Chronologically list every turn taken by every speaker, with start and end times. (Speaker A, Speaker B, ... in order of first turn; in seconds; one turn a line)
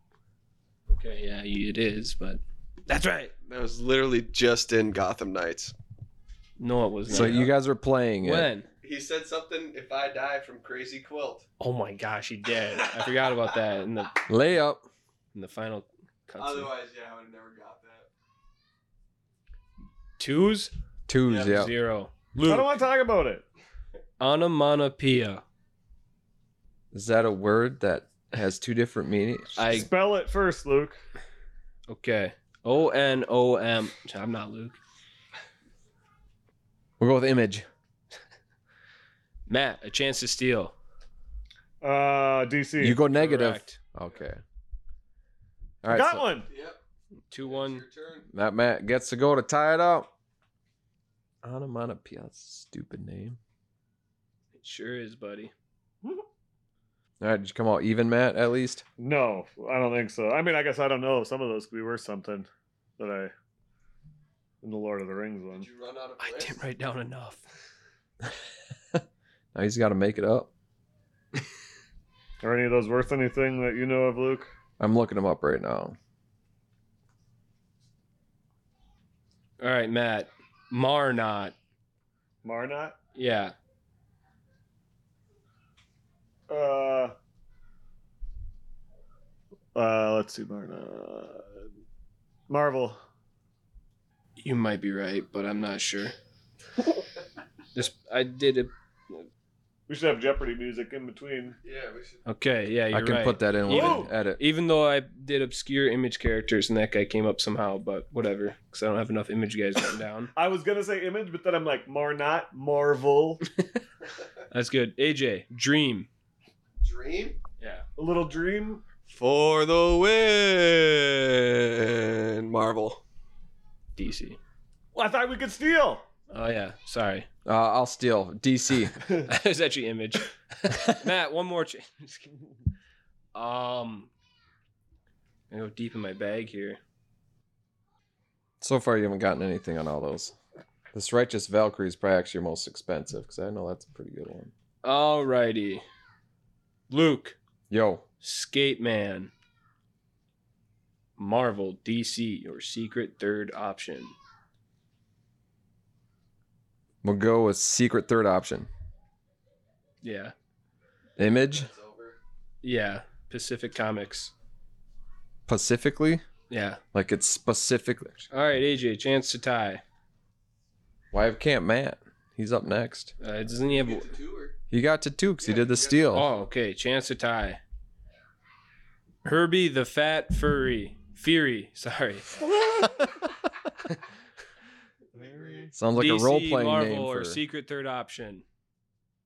Speaker A: 0.9-3.3
Speaker B: 3.5-5.8
Speaker A: 6.6-7.5
Speaker C: 7.1-8.5
Speaker B: 7.1-7.4
Speaker A: 8.2-8.7
Speaker B: 8.8-11.5
Speaker A: 11.6-14.2
Speaker C: 14.3-14.9
Speaker A: 15.3-16.7
Speaker B: 16.4-18.1
Speaker A: 20.2-20.7
Speaker C: 21.1-21.7
Speaker B: 21.3-21.6
Speaker A: 21.4-22.8
Speaker D: 22.4-23.4
Speaker A: 24.2-25.4
Speaker C: 26.9-29.9
Speaker A: 29.6-29.9
Speaker D: 29.7-31.0
Speaker A: 31.9-34.8
Speaker C: 37.0-37.7
Speaker A: 39.5-40.7
Speaker D: 41.8-43.0
Speaker C: 42.8-44.4
Speaker A: 43.1-43.8
Speaker C: 45.8-46.2
Speaker D: 45.9-46.5
Speaker B: 46.5-46.8
Speaker A: 47.3-47.8
Speaker B: 47.4-48.3
Speaker C: 48.3-50.1
Speaker C: 51.4-53.4
Speaker A: 54.5-55.5
Speaker C: 57.2-58.8
Speaker D: 59.0-63.3
Speaker D: 64.6-65.7
Speaker B: 65.5-66.6
Speaker A: 66.2-67.4
Speaker C: 69.5-70.5
Speaker D: 72.4-74.5
Speaker C: 74.8-76.0
Speaker A: 79.6-81.5
Speaker D: 82.4-83.0
Speaker A: 83.2-83.5
Speaker D: 86.5-87.2
Speaker D: 89.8-91.5
Speaker D: 92.5-93.0
Speaker A: 94.4-96.2
Speaker A: 97.8-99.3
Speaker D: 99.9-101.6
Speaker B: 101.6-102.2
Speaker A: 102.3-110.3
Speaker C: 102.9-104.4
Speaker D: 103.7-104.1
Speaker D: 110.4-113.4
Speaker A: 114.5-116.1
Speaker B: 116.8-117.4
Speaker A: 117.6-117.8
Speaker D: 118.0-118.8
Speaker B: 119.1-123.0
Speaker A: 124.0-124.4
Speaker D: 124.9-126.0
Speaker A: 126.3-127.3
Speaker C: 127.5-129.0
Speaker A: 129.2-132.3
Speaker A: 133.3-134.1
Speaker A: 135.5-136.8
Speaker C: 138.6-140.4
Speaker C: 140.9-144.5
Speaker A: 144.8-145.8
Speaker A: 146.9-147.4
Speaker C: 147.7-148.0
Speaker A: 148.2-149.3
Speaker A: 151.2-154.1
Speaker C: 157.0-158.7
Speaker A: 160.0-160.3
Speaker C: 161.2-161.7
Speaker B: 161.2-162.2
Speaker A: 162.6-164.3
Speaker C: 165.5-166.2
Speaker A: 166.5-166.8
Speaker C: 166.9-168.3
Speaker A: 168.3-169.8
Speaker C: 171.1-173.1
Speaker A: 173.2-174.1
Speaker B: 173.7-174.6
Speaker C: 174.7-176.3
Speaker B: 175.4-176.5
Speaker A: 176.1-177.6
Speaker A: 179.2-182.3
Speaker B: 185.2-185.7
Speaker D: 185.2-185.7
Speaker C: 185.8-187.4
Speaker A: 186.0-188.4